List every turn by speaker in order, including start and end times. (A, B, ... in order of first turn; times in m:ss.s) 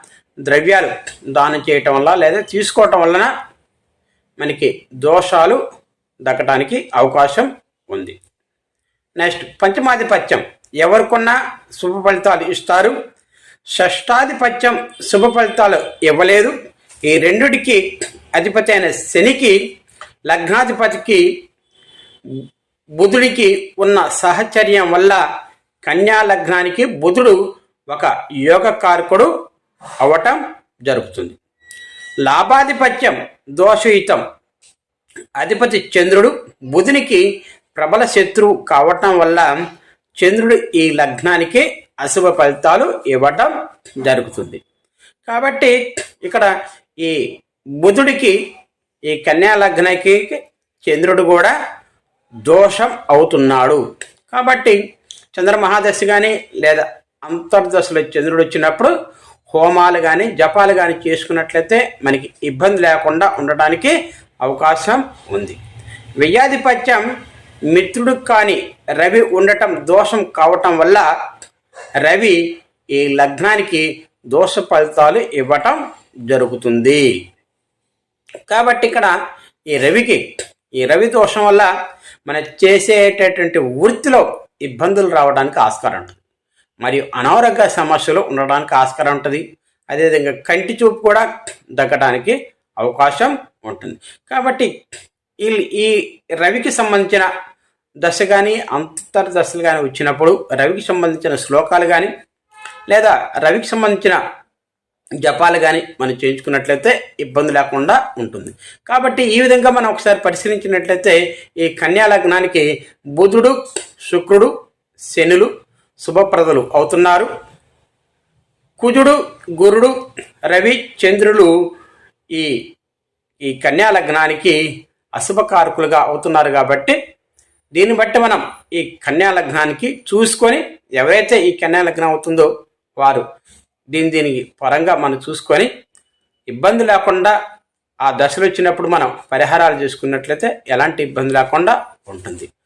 0:00.4-0:03.3 A
0:04.4-0:05.6 A
0:06.2-0:08.2 A
0:09.2-0:12.9 A
0:13.7-0:16.5 A
0:17.0-0:17.8 A
0:18.3-0:19.6 A
0:20.3-0:21.2 A
0:23.0-0:25.2 A
0:25.8-0:27.4 A
0:27.9-0:29.3 A
0:30.0-0:31.4 A
0:32.2-0:34.2 A
0:35.4-0:37.2 A
0:37.8-0:39.5 A
0:40.2-0:44.6 A
0:45.3-0:47.2 A
0:47.8-0:48.4 A
0:49.1-0:51.5 A
0:52.4-0:54.8 A
0:55.3-0:58.9 A
0:59.5-1:05.6 A
1:06.2-1:07.0 A
1:07.7-1:11.0 A
1:12.0-1:12.4 A
1:12.9-1:17.0 A
1:18.5-1:19.1 A
1:19.7-1:20.2 A
1:20.8-1:21.7 A
1:22.3-1:26.2 A
1:26.8-1:31.3 A
1:31.8-1:34.7 A
1:35.4-1:37.3 A
1:38.0-1:42.1 A
1:42.9-1:44.2 A
1:45.2-1:54.5 A
1:55.1-1:55.5 A
1:56.0-1:57.3 A
1:58.8-2:00.0 A
2:00.5-2:01.5 A
2:03.4-2:04.6 A
2:05.2-2:07.0 A
2:07.7-2:13.2 A
2:13.9-2:15.7 A
2:16.5-2:17.3 A
2:18.0-2:22.5 A